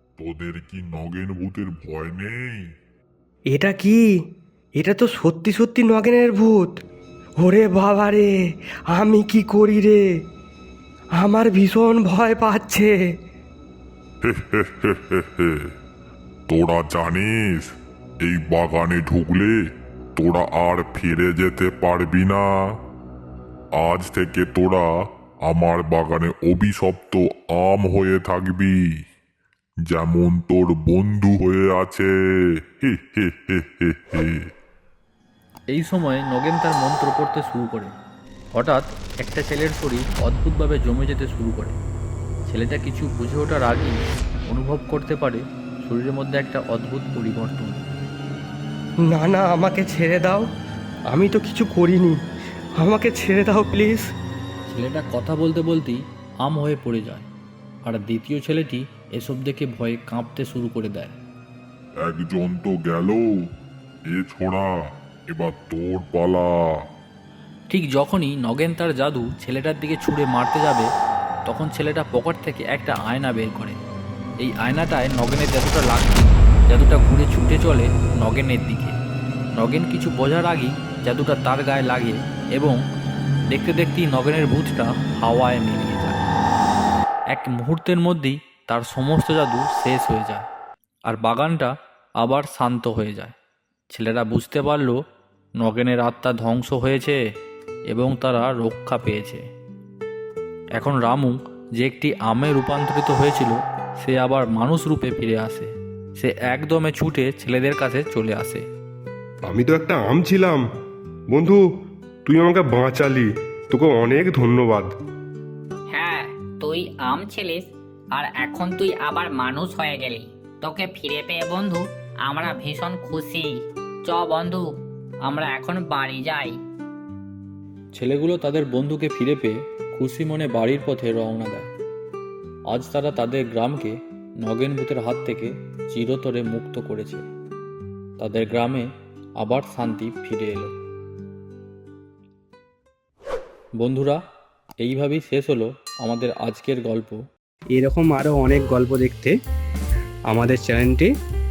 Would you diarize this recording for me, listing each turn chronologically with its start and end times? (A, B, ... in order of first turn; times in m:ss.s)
0:00.2-0:02.7 A
0:03.5-0:04.0 B
0:04.8-0:06.7 B
0:07.4-0:08.3 B
0:08.9-0:10.0 B
0:11.2-0:12.9 B
0:14.2-0:15.7 A
0:16.5-0:17.7 A
0:18.2-0:19.5 A
0:20.2-0:22.5 A
0:23.8-0:24.9 A
0:25.5-0:28.7 A
0:29.9-0:32.1 A
0:32.8-0:34.4 A
0:35.7-0:37.9 C
0:38.5-0:41.8 C
0:42.5-0:44.0 C
0:44.5-0:47.9 C
0:49.1-0:50.4 B
0:51.1-0:52.2 B
0:52.8-0:54.0 B
0:54.7-0:57.3 C
0:57.8-1:01.1 C
1:02.0-1:03.2 A
1:04.1-1:04.7 A
1:05.3-1:06.5 A
1:07.7-1:10.9 C
1:11.5-1:13.8 C
1:14.4-1:19.0 C
1:19.6-1:22.8 C
1:23.5-1:26.2 C
1:27.3-1:30.4 C
1:31.1-1:33.3 C
1:33.9-1:35.0 C
1:35.6-1:37.2 C
1:37.9-1:39.4 C
1:40.8-1:48.6 C
1:49.4-1:50.6 D
1:51.3-1:51.6 D
1:52.2-1:54.9 D
1:55.9-2:03.5 E
2:04.0-2:04.6 E
2:05.2-2:06.5 E
2:08.0-2:11.7 C
2:12.7-2:17.2 C
2:18.2-2:18.9 C
2:19.4-2:20.7 C
2:23.8-2:24.2 C
2:24.8-2:27.2 C
2:27.7-2:29.4 F
2:30.3-2:31.1 F